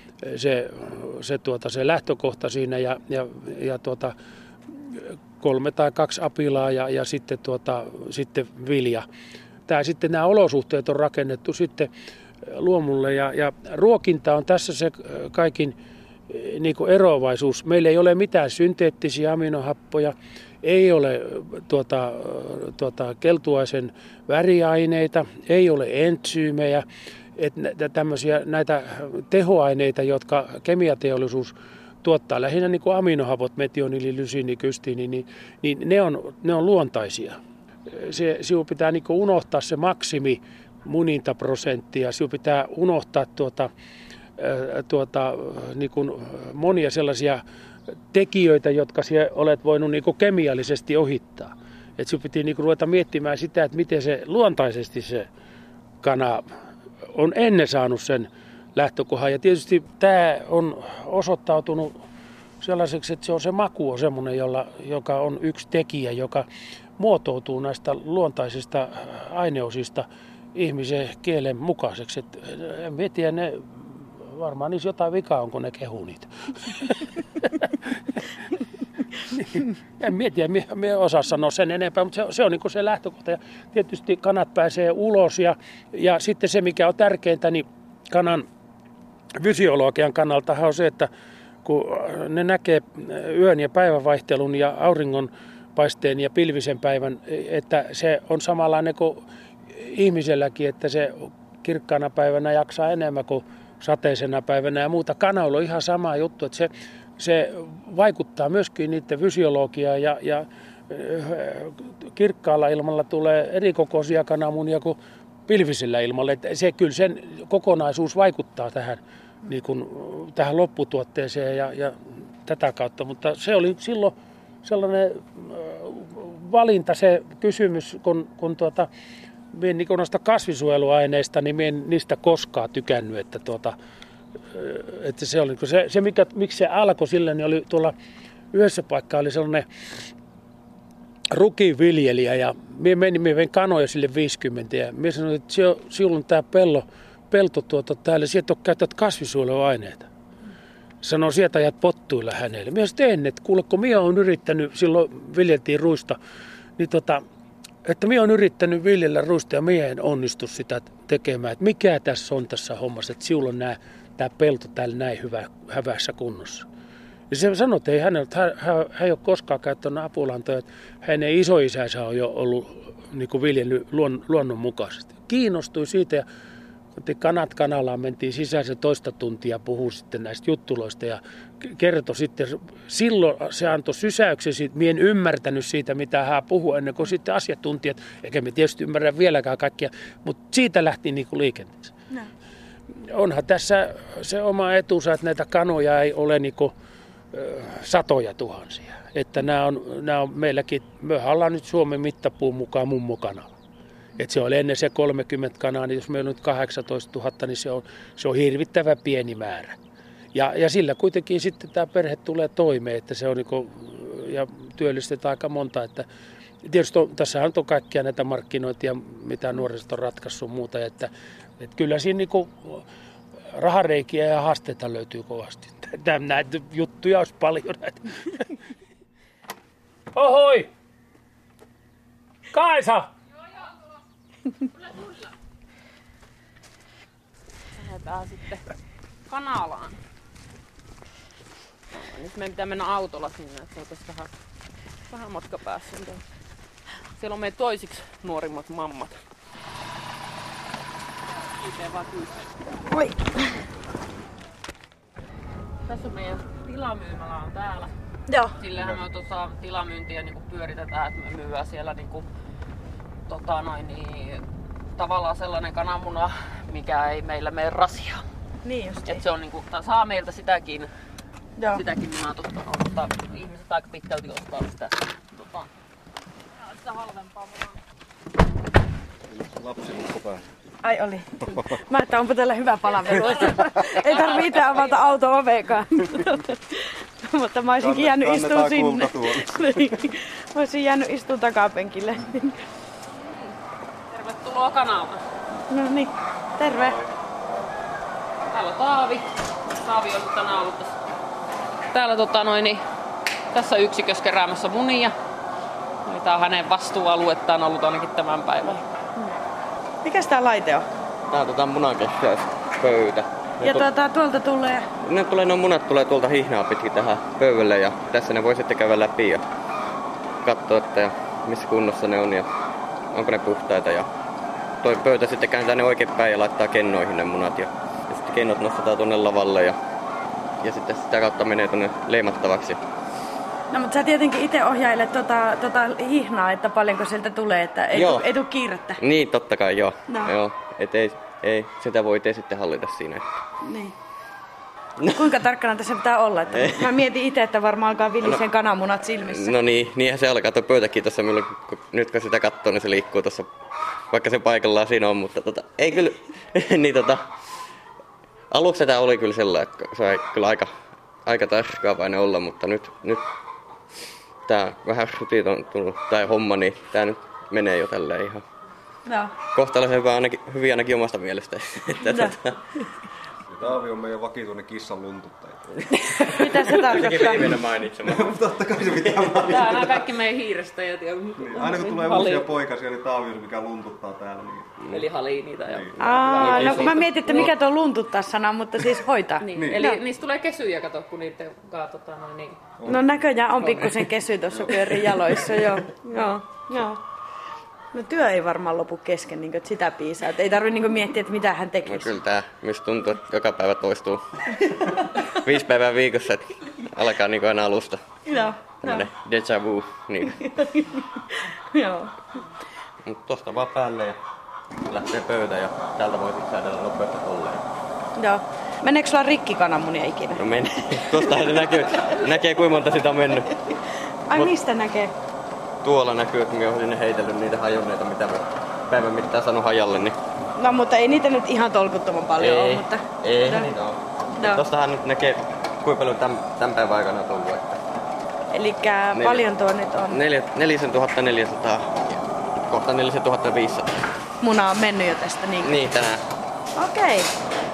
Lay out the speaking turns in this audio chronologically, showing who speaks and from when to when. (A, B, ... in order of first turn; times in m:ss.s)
0:00.2-0:04.1 A
0:04.8-0:09.0 A
0:09.7-0:11.9 A
0:12.5-0:15.8 A
0:16.3-0:26.8 A
0:27.4-0:43.7 A
0:44.4-0:47.4 A
0:48.1-0:55.3 A
0:56.0-0:56.5 A
0:57.1-1:02.0 A
1:02.6-1:06.4 A
1:07.0-1:18.2 A
1:19.3-1:28.5 A
1:29.4-1:31.1 A
1:31.6-2:08.9 A
2:09.5-2:13.8 A
2:14.5-2:17.9 A
2:18.5-2:19.7 A
2:21.3-2:30.1 A
2:31.0-2:36.2 A
2:36.8-2:37.2 A
2:37.8-2:46.7 A
2:47.3-2:56.2 A
2:57.0-3:11.9 A
3:13.0-3:16.7 A
3:17.3-3:23.5 A
3:24.2-3:29.8 A
3:30.3-3:36.0 A
3:36.6-3:42.8 A
3:43.5-3:48.6 A
3:50.1-3:50.7 A
3:52.5-3:53.1 A
3:57.7-3:58.7 B
3:59.3-4:00.0 B
4:01.9-4:04.3 B
4:05.1-4:06.2 B
4:07.2-4:09.2 B
4:11.6-4:12.5 B
4:12.8-4:13.6 C
4:15.8-4:17.9 B
4:18.3-4:18.6 C
4:18.6-4:22.3 B
4:23.3-4:24.4 B
4:25.0-4:28.2 B
4:28.6-4:29.2 C
4:29.0-4:30.9 B
4:31.6-4:31.8 C
4:31.7-4:35.7 B
4:36.7-4:37.7 B
4:39.3-4:40.4 D
4:40.8-4:52.6 C
4:43.1-4:45.2 B
4:47.8-4:49.9 D
4:53.1-4:53.6 B
4:54.1-4:55.2 B
4:55.7-4:57.0 C
4:58.5-5:01.0 B
5:01.9-5:02.8 B
5:03.5-5:05.1 B
5:06.1-5:08.8 B
5:10.0-5:10.9 C
5:11.3-5:13.9 E
5:13.6-5:14.9 C
5:15.0-5:19.4 E
5:20.4-5:22.5 E
5:23.1-5:24.1 E
5:24.8-5:29.8 E
5:30.6-5:32.8 E
5:33.7-5:39.0 C
5:37.9-5:38.3 E
5:39.0-5:43.3 E
5:43.6-5:43.9 C
5:45.0-5:45.4 E
5:45.1-5:49.6 C
5:46.5-5:47.0 E
5:49.3-5:53.5 E
5:54.1-5:57.2 E
5:58.5-6:00.7 E
6:01.2-6:03.2 E
6:04.5-6:08.4 E
6:09.1-6:09.3 C
6:09.5-6:12.6 E
6:12.0-6:12.3 C
6:13.5-6:15.7 D
6:16.1-6:19.6 E
6:16.4-6:17.6 C
6:18.1-6:20.1 D
6:19.5-6:22.5 B
6:21.4-6:24.8 D
6:24.9-6:27.5 B
6:26.0-6:30.0 C
6:26.3-6:27.1 E
6:29.4-6:32.6 B
6:29.6-6:30.0 D
6:32.8-6:37.0 C
6:33.6-6:34.0 B
6:37.9-6:42.2 C
6:41.8-6:44.2 E
6:45.4-6:48.0 E
6:48.3-6:49.1 C
6:48.8-6:50.4 E
6:50.6-6:51.0 C
6:51.7-6:52.1 C
6:53.1-6:54.2 E
6:54.9-6:57.6 E
6:58.2-7:00.4 C
7:00.4-7:03.6 E
7:01.1-7:02.2 C
7:04.3-7:05.1 C
7:05.8-7:10.2 E
7:10.6-7:13.7 C
7:12.4-7:17.8 E
7:14.4-7:14.6 C
7:18.5-7:20.2 C
7:19.1-7:19.5 E
7:20.1-7:23.9 E
7:24.4-7:25.8 C
7:25.6-7:26.2 E
7:26.8-7:27.3 C